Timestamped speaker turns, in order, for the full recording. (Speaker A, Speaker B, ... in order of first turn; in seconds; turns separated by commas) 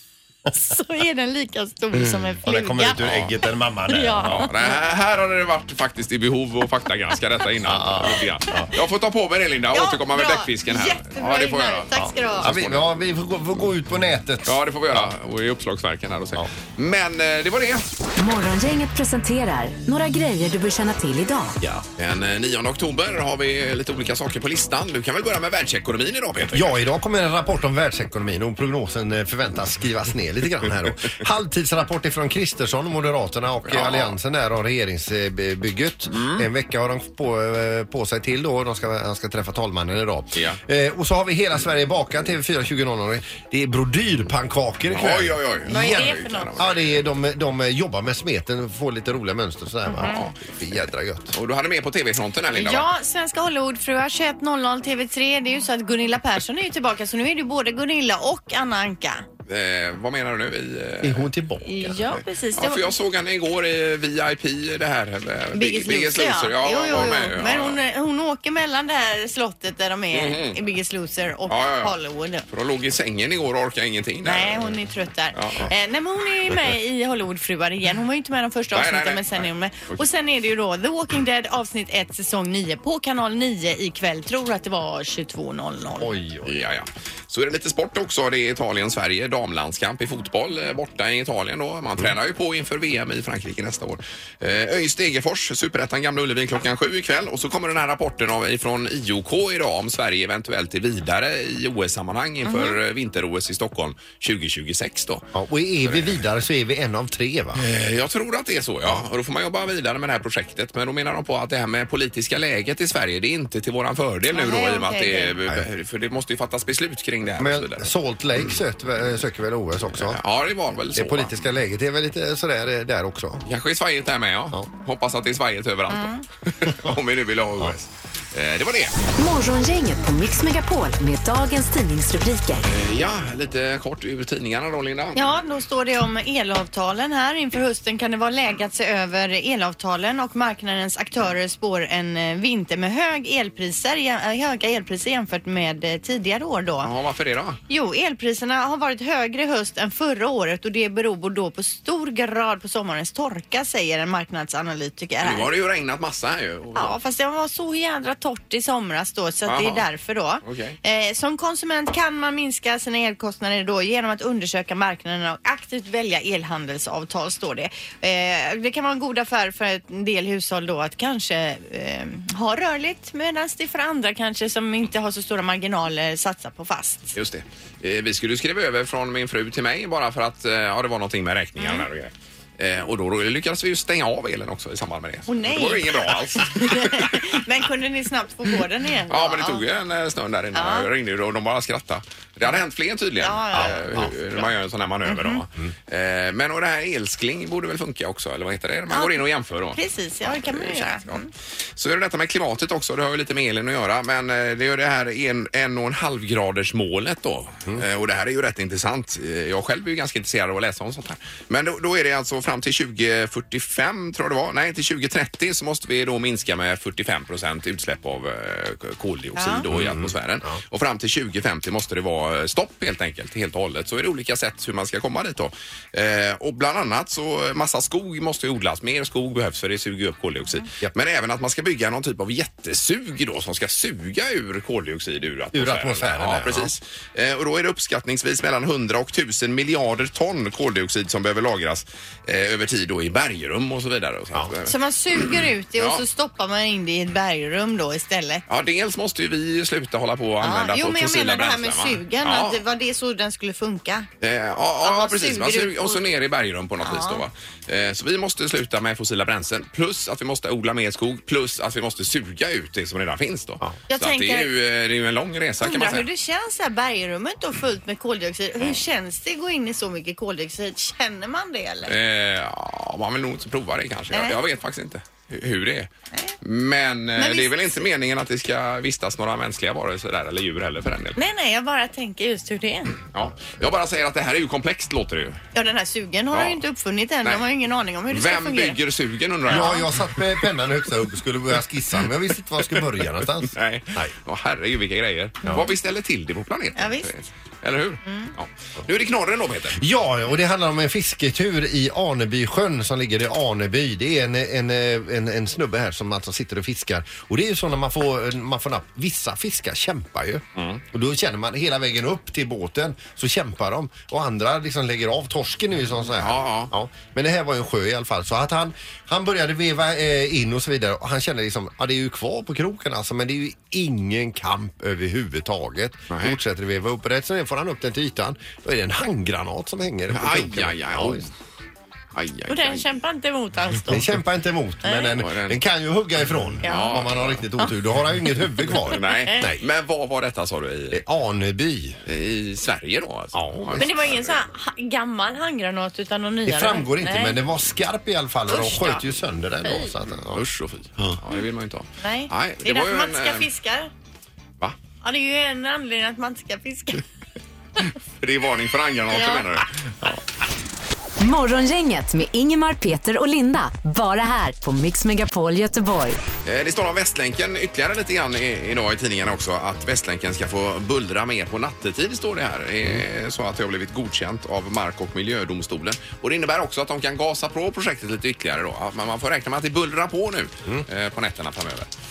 Speaker A: 0.5-3.0, Speaker B: 2.4-4.5, Speaker C: 3.0-3.3, Speaker A: 3.9-4.7, Speaker C: 4.3-12.9, Speaker B: 7.6-8.7, Speaker A: 9.7-12.5, Speaker B: 11.9-15.1, Speaker C: 14.4-17.9, Speaker D: 18.2-21.6, Speaker C: 22.0-26.7, Speaker B: 26.5-51.3, Speaker C: 33.7-34.1, Speaker C: 36.1-36.5, Speaker C: 44.9-46.7, Speaker A: 45.7-46.6, Speaker A: 49.9-50.2, Speaker C: 50.1-50.4, Speaker C: 51.3-52.9, Speaker A: 52.5-59.2, Speaker C: 59.5-61.3, Speaker B: 61.0-62.0, Speaker A: 61.6-62.9, Speaker C: 62.5-67.8, Speaker A: 65.5-72.4, Speaker C: 70.1-70.6, Speaker C: 71.5-71.9, Speaker C: 72.5-74.8, Speaker A: 74.2-86.1, Speaker C: 75.3-75.7, Speaker C: 78.7-80.0, Speaker B: 86.0-86.5, Speaker C: 86.4-105.2, Speaker A: 102.5-102.8, Speaker B: 105.3-107.6, Speaker C: 105.8-106.2, Speaker C: 107.5-117.9, Speaker A: 114.3-115.3, Speaker B: 117.4-120.2, Speaker C: 119.9-121.3, Speaker B: 120.9-123.4, Speaker C: 123.5-128.9, Speaker A: 125.9-126.2, Speaker B: 126.7-127.0, Speaker D: 129.2-132.7, Speaker C: 132.6-135.3, Speaker A: 135.1-146.9, Speaker C: 146.8-147.6, Speaker A: 147.7-155.5, Speaker C: 155.2-156.9, Speaker A: 156.8-177.1, Speaker C: 159.5-159.8, Speaker C: 160.4-160.8, Speaker C: 177.1-187.3, Speaker A: 181.6-181.9, Speaker A: 185.3-189.6, Speaker C: 189.1-201.2, Speaker A: 190.5-190.9, Speaker A: 193.2-194.0, Speaker B: 193.5-194.1, Speaker A: 195.1-195.4, Speaker A: 198.9-199.2, Speaker A: 199.7-201.3, Speaker C: 201.8-244.7, Speaker A: 219.3-219.6, Speaker B: 219.7-220.6, Speaker B: 235.5-236.7, Speaker A: 244.6-248.4, Speaker C: 245.8-246.0, Speaker C: 248.5-252.6, Speaker A: 250.4-254.1, Speaker C: 254.2-266.1, Speaker A: 254.8-256.0, Speaker A: 256.8-257.2, Speaker A: 263.9-264.5, Speaker A: 265.6-271.9, Speaker C: 271.9-275.9, Speaker A: 274.1-274.4, Speaker C: 276.4-281.2, Speaker A: 277.1-277.8, Speaker A: 281.1-283.0, Speaker C: 283.1-285.4, Speaker A: 285.5-288.8, Speaker C: 286.3-286.6, Speaker C: 288.1-290.1, Speaker B: 289.5-294.1, Speaker A: 289.5-289.8, Speaker C: 293.4-299.8, Speaker A: 296.8-297.1, Speaker A: 298.0-298.3, Speaker B: 299.7-331.3, Speaker C: 316.2-316.7, Speaker C: 326.1-326.4, Speaker C: 330.1-331.3, Speaker C: 332.1-332.8, Speaker A: 332.5-334.1, Speaker B: 333.9-339.6, Speaker A: 334.8-335.1, Speaker C: 335.2-335.6, Speaker C: 336.6-337.4, Speaker A: 336.6-337.1, Speaker C: 338.9-341.0, Speaker A: 338.9-339.5, Speaker B: 340.9-342.0, Speaker C: 342.1-344.3, Speaker B: 343.3-343.9, Speaker A: 343.8-347.4, Speaker B: 346.4-350.4, Speaker A: 348.5-349.1, Speaker A: 349.6-349.9, Speaker C: 350.3-353.5, Speaker A: 352.0-353.9, Speaker A: 355.0-357.0, Speaker C: 358.2-360.2, Speaker A: 359.1-359.4, Speaker D: 361.2-366.2, Speaker C: 366.4-381.9